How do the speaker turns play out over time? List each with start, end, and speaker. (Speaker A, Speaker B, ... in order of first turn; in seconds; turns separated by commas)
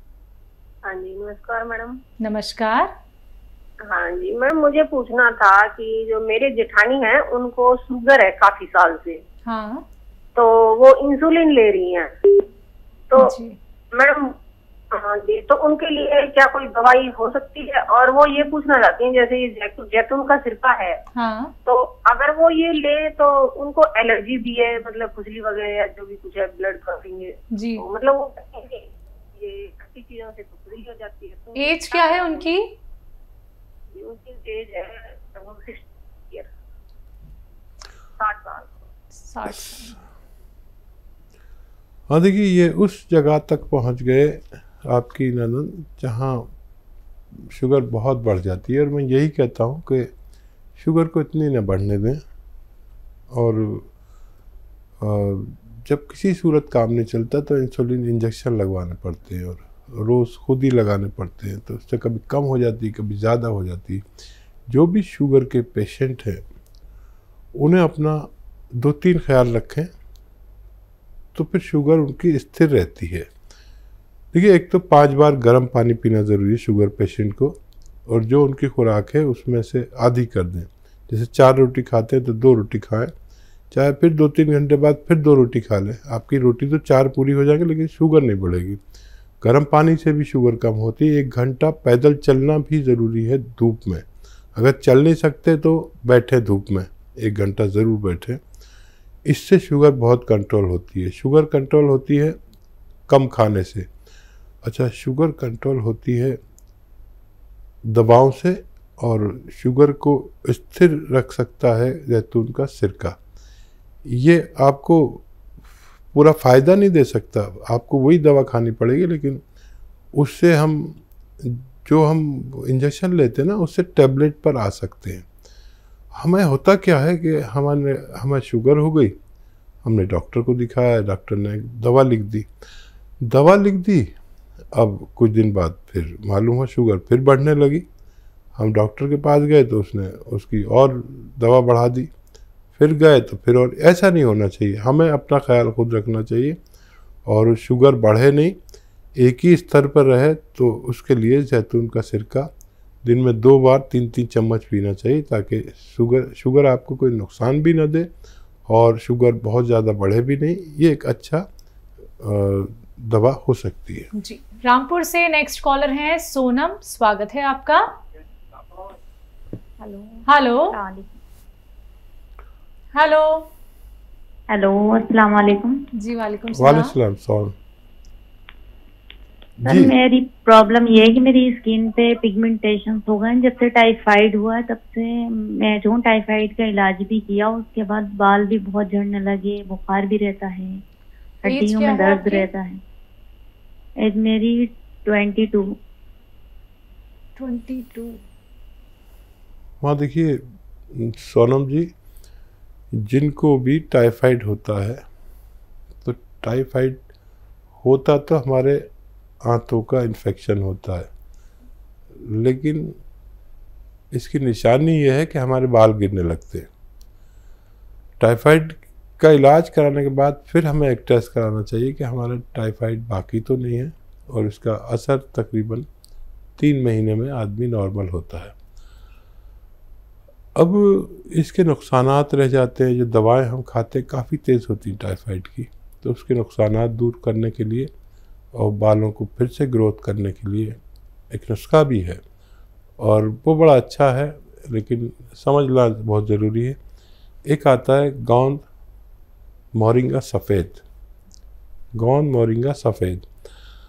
Speaker A: 0.9-2.0, Speaker B: 2.2-2.9, Speaker A: 3.9-9.2, Speaker B: 9.5-9.8, Speaker A: 10.4-12.1, Speaker B: 13.2-13.6, Speaker A: 13.9-14.3, Speaker A: 14.9-21.0, Speaker B: 21.1-21.5, Speaker A: 21.7-32.5, Speaker B: 27.5-27.9, Speaker B: 31.6-32.6, Speaker A: 33.9-36.5, Speaker A: 38.2-38.7, Speaker B: 39.1-40.0, Speaker C: 42.1-46.5, Speaker C: 47.5-50.1, Speaker C: 50.8-52.2, Speaker C: 53.4-53.9, Speaker C: 55.0-64.0, Speaker C: 64.7-66.4, Speaker C: 67.6-69.9, Speaker C: 71.3-73.3, Speaker C: 74.3-83.1, Speaker C: 83.7-88.8, Speaker C: 89.4-98.4, Speaker C: 99.3-102.4, Speaker C: 103.1-103.9, Speaker C: 104.6-106.4, Speaker C: 107.9-113.2, Speaker C: 114.1-115.3, Speaker C: 116.1-119.4, Speaker C: 120.2-125.3, Speaker C: 126.2-129.2, Speaker C: 129.8-132.5, Speaker C: 133.2-134.1, Speaker C: 134.7-137.9, Speaker C: 138.6-142.1, Speaker C: 142.8-146.6, Speaker C: 147.3-148.6, Speaker C: 149.2-152.5, Speaker C: 153.1-158.1, Speaker C: 158.7-161.5, Speaker C: 162.2-164.1, Speaker B: 164.2-167.8, Speaker B: 170.3-170.8, Speaker D: 170.7-171.1, Speaker B: 173.0-173.5, Speaker D: 174.5-175.8, Speaker B: 176.0-176.9, Speaker C: 176.5-177.6, Speaker C: 179.6-180.0, Speaker D: 179.6-190.8, Speaker D: 191.4-192.8, Speaker B: 191.5-192.5, Speaker D: 194.0-195.7, Speaker B: 197.4-198.2, Speaker C: 199.8-200.4, Speaker C: 200.9-201.9, Speaker C: 203.0-205.0, Speaker C: 206.0-207.0, Speaker C: 207.8-208.8, Speaker C: 209.4-211.1, Speaker C: 212.2-213.0, Speaker C: 214.1-216.7, Speaker C: 218.2-225.9, Speaker C: 226.6-228.6, Speaker C: 230.6-237.9, Speaker C: 238.5-240.8, Speaker C: 241.3-242.2, Speaker C: 243.0-246.8, Speaker C: 247.5-248.6, Speaker C: 249.7-250.8, Speaker C: 252.0-253.3